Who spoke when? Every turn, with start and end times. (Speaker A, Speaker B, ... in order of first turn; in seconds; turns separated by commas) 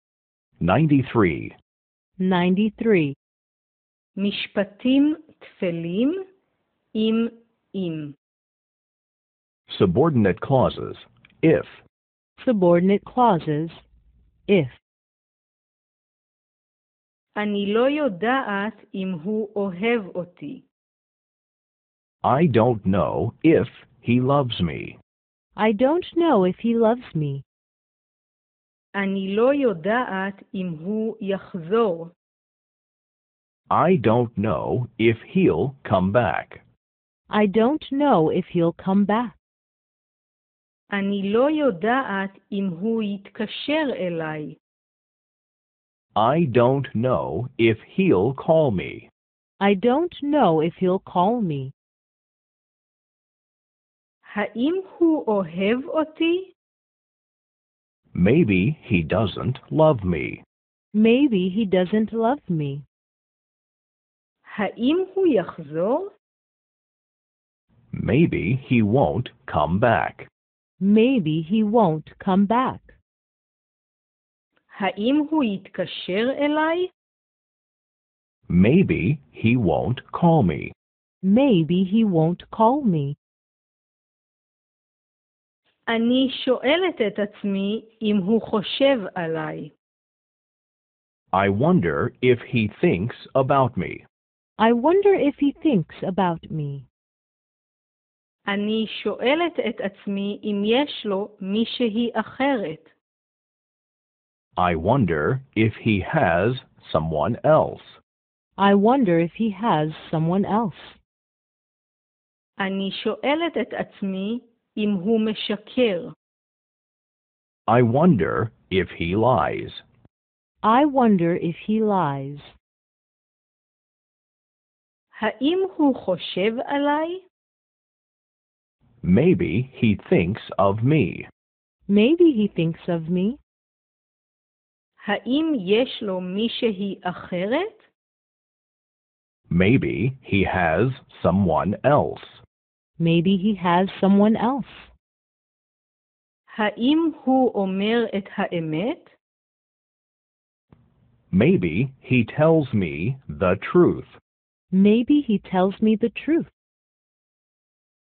Speaker A: 0.6-1.5, Speaker B: 2.2-3.1, Speaker C: 4.2-6.2, Speaker C: 6.9-8.2, Speaker A: 9.7-11.8, Speaker B: 12.4-13.8, Speaker B: 14.5-14.8, Speaker C: 17.3-20.6, Speaker A: 22.2-25.0, Speaker B: 25.6-27.4, Speaker C: 28.9-32.1, Speaker A: 33.7-36.6, Speaker B: 37.3-39.3, Speaker C: 40.9-44.6, Speaker A: 46.1-49.1, Speaker B: 49.6-51.7, Speaker C: 54.2-56.5, Speaker A: 58.1-60.4, Speaker B: 60.9-62.8, Speaker C: 64.4-66.1, Speaker A: 67.9-70.3, Speaker B: 70.8-73.0, Speaker C: 74.7-76.9, Speaker A: 78.5-80.7, Speaker B: 81.2-83.2, Speaker C: 85.9-89.7, Speaker A: 91.3-94.0, Speaker B: 94.6-96.8, Speaker C: 98.5-102.9, Speaker A: 104.6-108.0, Speaker B: 108.6-111.0, Speaker C: 112.6-116.1, Speaker A: 117.7-119.8, Speaker B: 120.6-122.5, Speaker C: 125.1-127.2, Speaker A: 129.0-131.3, Speaker B: 131.9-133.4, Speaker C: 135.0-137.8, Speaker A: 139.5-142.4, Speaker B: 143.0-144.9, Speaker C: 146.5-149.1, Speaker A: 151.3-154.2, Speaker B: 154.7-156.5